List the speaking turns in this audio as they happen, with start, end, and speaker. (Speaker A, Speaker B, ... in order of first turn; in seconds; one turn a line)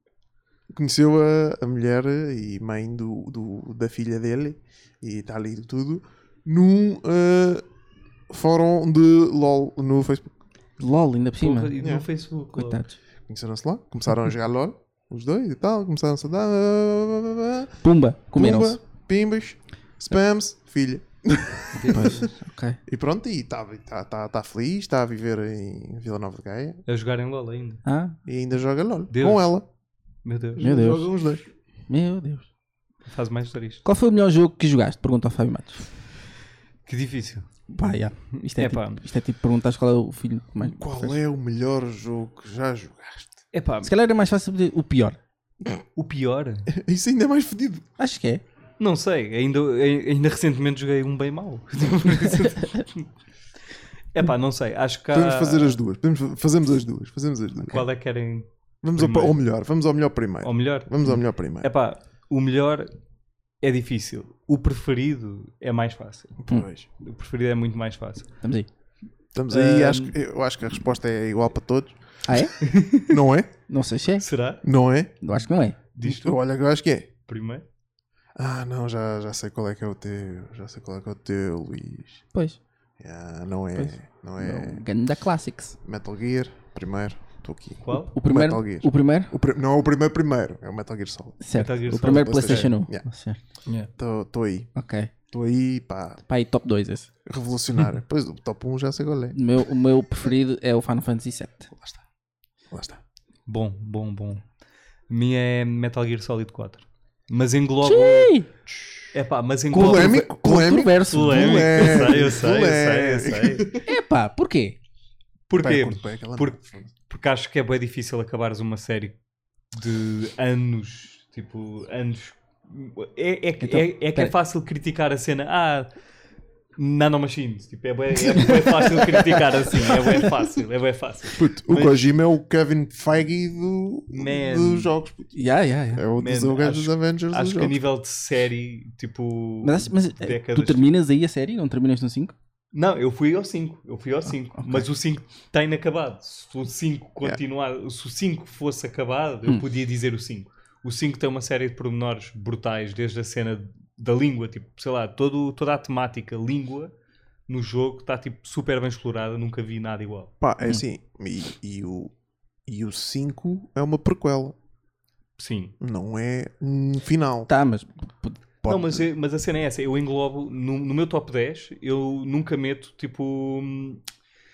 Speaker A: 0.7-7.6
Speaker A: 8.3-10.3
Speaker B: 10.8-11.7
Speaker C: 11.4-12.8
Speaker A: 11.8-12.1
Speaker B: 12.5-12.9
Speaker A: 13.3-17.8
Speaker B: 17.8-18.8
Speaker A: 18.3-22.3
Speaker C: 21.7-22.2
Speaker B: 21.9-22.8
Speaker A: 22.9-26.8
Speaker C: 26.9-27.8
Speaker B: 27.8-28.1
Speaker A: 28.2-29.6
Speaker C: 29.1-29.6
Speaker C: 30.2-30.6
Speaker A: 30.6-31.5
Speaker B: 30.6-31.1
Speaker B: 31.9-32.5
Speaker C: 33.0-33.8
Speaker B: 33.8-35.9
Speaker C: 36.9-37.5
Speaker B: 37.7-41.2
Speaker C: 38.5-39.0
Speaker A: 40.6-43.4
Speaker C: 43.5-43.9
Speaker B: 43.8-45.2
Speaker C: 46.0-46.7
Speaker A: 46.7-47.9
Speaker B: 48.0-48.4
Speaker C: 48.8-53.1
Speaker C: 54.1-55.8
Speaker A: 55.1-57.9
Speaker C: 57.6-59.4
Speaker A: 58.8-61.7
Speaker C: 60.4-62.9
Speaker C: 63.6-66.4
Speaker A: 66.4-66.9
Speaker C: 67.0-68.3
Speaker B: 68.4-68.7
Speaker A: 69.3-73.5
Speaker C: 69.5-70.0
Speaker B: 72.3-72.5
Speaker C: 72.6-73.2
Speaker B: 73.7-74.2
Speaker C: 74.2-74.6
Speaker A: 74.6-75.1
Speaker B: 75.2-75.8
Speaker C: 75.9-76.4
Speaker A: 76.0-77.1
Speaker C: 77.3-77.6
Speaker A: 78.3-82.2
Speaker A: 83.0-84.9
Speaker B: 83.7-85.8
Speaker A: 85.8-91.4
Speaker C: 87.8-88.1
Speaker B: 88.1-89.3
Speaker B: 91.4-93.4
Speaker C: 91.5-92.7
Speaker A: 91.9-93.0
Speaker A: 94.0-94.7
Speaker B: 94.7-95.1
Speaker A: 95.3-96.2
Speaker B: 96.3-97.1
Speaker A: 97.2-99.4
Speaker B: 99.3-101.7
Speaker A: 101.8-102.0
Speaker A: 102.7-103.0
Speaker C: 103.5-104.4
Speaker C: 105.1-108.3
Speaker B: 107.8-108.5
Speaker C: 109.1-110.3
Speaker B: 109.7-111.5
Speaker A: 109.7-113.8
Speaker C: 110.9-113.8
Speaker B: 113.8-114.8
Speaker C: 115.5-116.6
Speaker A: 115.6-116.9
Speaker C: 117.1-119.2
Speaker C: 119.7-125.9
Speaker B: 123.6-124.3
Speaker C: 126.8-132.1
Speaker A: 131.3-135.3
Speaker C: 134.1-134.9
Speaker B: 135.3-136.0
Speaker A: 135.9-137.8
Speaker C: 136.2-140.9
Speaker B: 139.6-142.3
Speaker C: 142.7-156.9
Speaker B: 144.6-144.8
Speaker C: 157.5-160.3
Speaker A: 160.4-162.1
Speaker A: 162.7-164.6
Speaker C: 165.4-165.7
Speaker A: 165.8-167.5
Speaker B: 167.5-169.0
Speaker C: 168.7-174.0